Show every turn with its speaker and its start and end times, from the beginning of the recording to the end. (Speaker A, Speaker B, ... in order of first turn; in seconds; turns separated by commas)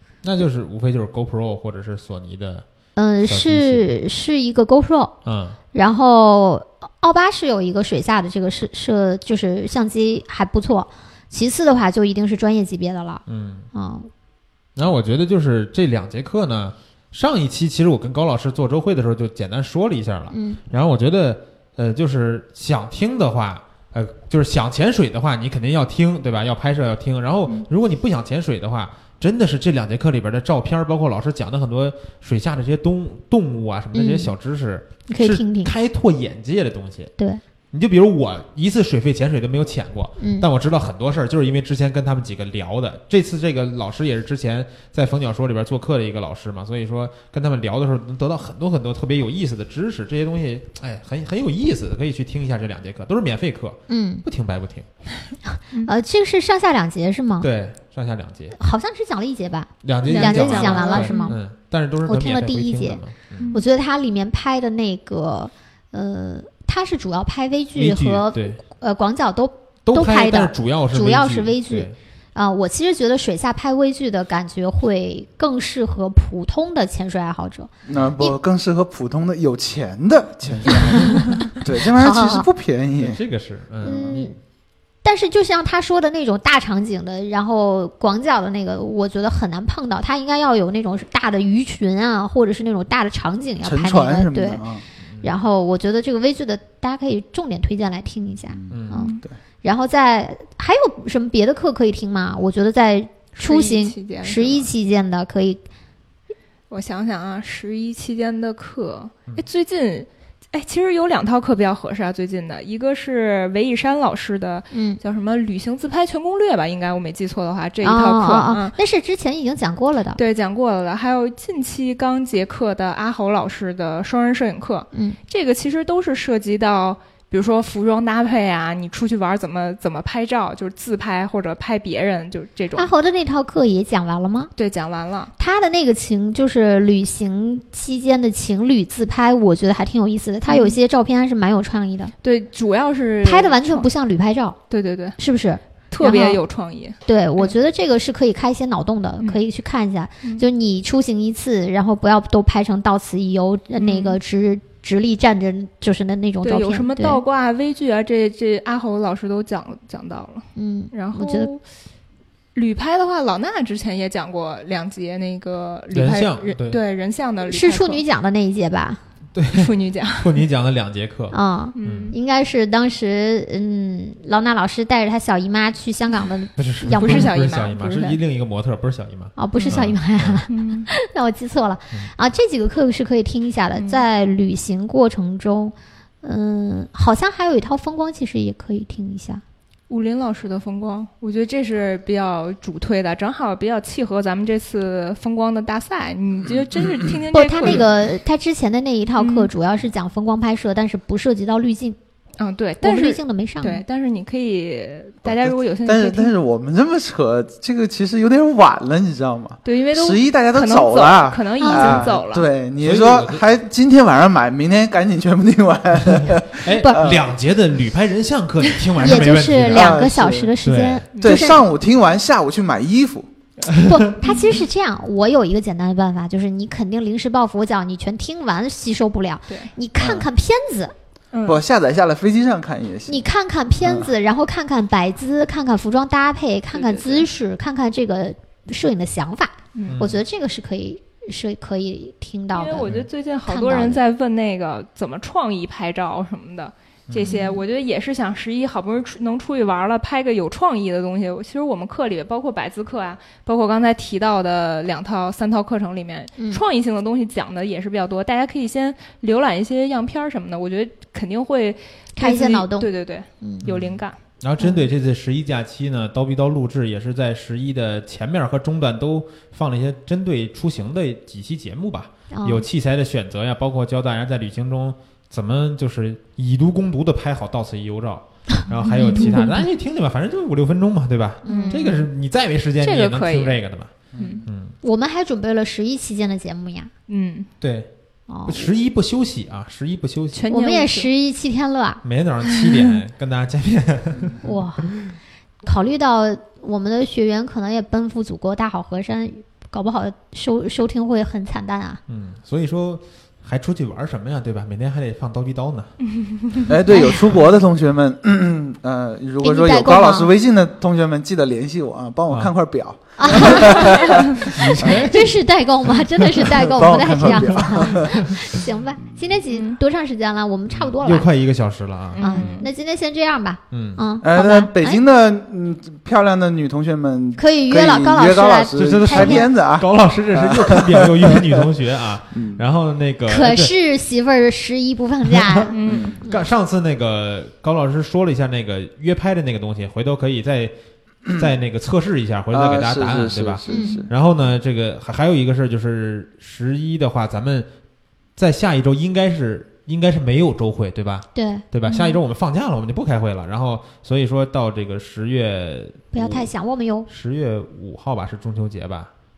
Speaker A: 0.2-2.7, Speaker B: 3.0-5.2, Speaker A: 3.2-3.9, Speaker A: 5.2-5.6, Speaker B: 5.7-14.1, Speaker A: 13.3-13.7, Speaker A: 14.8-37.1, Speaker B: 20.3-20.6, Speaker B: 33.9-34.3, Speaker B: 35.1-35.7, Speaker B: 37.2-37.4, Speaker A: 37.7-54.9, Speaker B: 40.2-40.5, Speaker B: 53.9-54.3, Speaker B: 55.5-57.5, Speaker A: 57.4-58.5, Speaker B: 58.6-61.4, Speaker A: 59.8-63.5, Speaker C: 60.0-61.4, Speaker B: 62.0-78.4, Speaker C: 63.4-63.6, Speaker A: 67.8-68.6, Speaker A: 69.9-72.0, Speaker D: 77.9-83.2, Speaker B: 80.7-82.5, Speaker A: 83.0-84.3, Speaker B: 83.8-84.4, Speaker B: 85.0-94.6, Speaker D: 93.6-94.8, Speaker A: 95.0-95.3, Speaker B: 95.2-105.6, Speaker D: 98.5-99.3, Speaker A: 98.7-99.1, Speaker C: 98.9-99.2, Speaker C: 103.4-104.7, Speaker C: 106.7-118.8, Speaker B: 114.7-115.0, Speaker B: 117.8-120.2, Speaker C: 120.2-132.9, Speaker B: 132.8-134.5, Speaker C: 134.6-135.3, Speaker B: 135.4-142.1, Speaker C: 140.5-140.8, Speaker C: 142.2-143.9, Speaker B: 143.2-144.6, Speaker C: 144.7-145.2, Speaker B: 145.2-146.4, Speaker C: 145.9-147.6, Speaker B: 147.1-157.2, Speaker C: 153.8-154.2, Speaker C: 156.4-161.6, Speaker B: 160.6-161.5, Speaker C: 162.6-168.0, Speaker A: 165.9-166.8, Speaker B: 167.5-169.0, Speaker A: 169.3-172.2, Speaker C: 169.5-170.4, Speaker B: 171.3-177.3, Speaker C: 171.8-172.2, Speaker A: 176.6-180.4, Speaker C: 176.9-178.2, Speaker B: 179.4-189.4, Speaker C: 179.6-179.8, Speaker C: 180.5-180.9, Speaker C: 183.8-184.1, Speaker C: 189.9-198.0, Speaker B: 197.3-202.0, Speaker C: 199.2-199.5, Speaker C: 202.4-206.3, Speaker B: 202.8-203.8, Speaker D: 205.2-217.3, Speaker C: 209.7-212.5, Speaker B: 211.6-212.1, Speaker A: 212.8-213.4, Speaker A: 216.6-220.1, Speaker B: 216.8-217.1, Speaker B: 219.0-221.7, Speaker D: 219.7-220.6, Speaker A: 220.6-221.1, Speaker C: 221.2-221.4, Speaker D: 221.2-223.3, Speaker A: 223.7-224.1, Speaker B: 223.8-230.9, Speaker C: 224.2-224.7, Speaker D: 230.0-230.3, Speaker C: 231.3-231.6, Speaker D: 231.4-233.2, Speaker B: 233.1-244.0, Speaker D: 233.8-234.1, Speaker C: 236.7-237.3, Speaker C: 239.8-240.0, Speaker A: 239.9-240.2, Speaker C: 242.5-264.2, Speaker B: 247.2-247.6, Speaker B: 256.4-256.6, Speaker B: 262.2-263.6, Speaker A: 263.6-284.8, Speaker B: 272.3-272.7, Speaker C: 279.0-279.3, Speaker B: 279.0-279.6, Speaker B: 281.4-281.9, Speaker C: 281.4-282.0, Speaker C: 282.8-283.6, Speaker D: 284.1-284.5, Speaker C: 284.2-284.4, Speaker B: 284.8-286.9, Speaker C: 287.1-287.5, Speaker A: 287.6-287.9, Speaker B: 288.3-288.7, Speaker A: 288.4-290.4, Speaker C: 290.3-291.1, Speaker B: 290.5-292.0, Speaker A: 292.0-294.4, Speaker B: 294.4-295.0, Speaker B: 295.6-302.0, Speaker A: 302.1-305.9, Speaker C: 306.1-306.7, Speaker D: 306.7-315.1, Speaker B: 306.9-307.3, Speaker B: 309.4-310.3, Speaker B: 313.2-321.3, Speaker A: 314.4-315.4, Speaker A: 316.1-316.4, Speaker D: 316.4-318.3, Speaker A: 317.1-318.6, Speaker C: 319.5-319.8, Speaker A: 320.7-322.6, Speaker C: 322.1-322.7, Speaker B: 322.2-325.0, Speaker A: 323.7-324.0, Speaker D: 324.2-331.6, Speaker B: 327.4-329.5, Speaker A: 328.8-333.7, Speaker D: 332.3-332.6, Speaker B: 333.3-336.4, Speaker C: 335.7-336.1, Speaker D: 335.9-336.2, Speaker A: 336.2-340.7, Speaker A: 341.3-347.7, Speaker D: 342.5-344.1, Speaker B: 343.7-344.1, Speaker C: 343.7-344.1, Speaker A: 348.4-356.5, Speaker B: 351.4-351.6, Speaker C: 351.9-352.2, Speaker B: 356.1-357.1, Speaker A: 357.1-359.1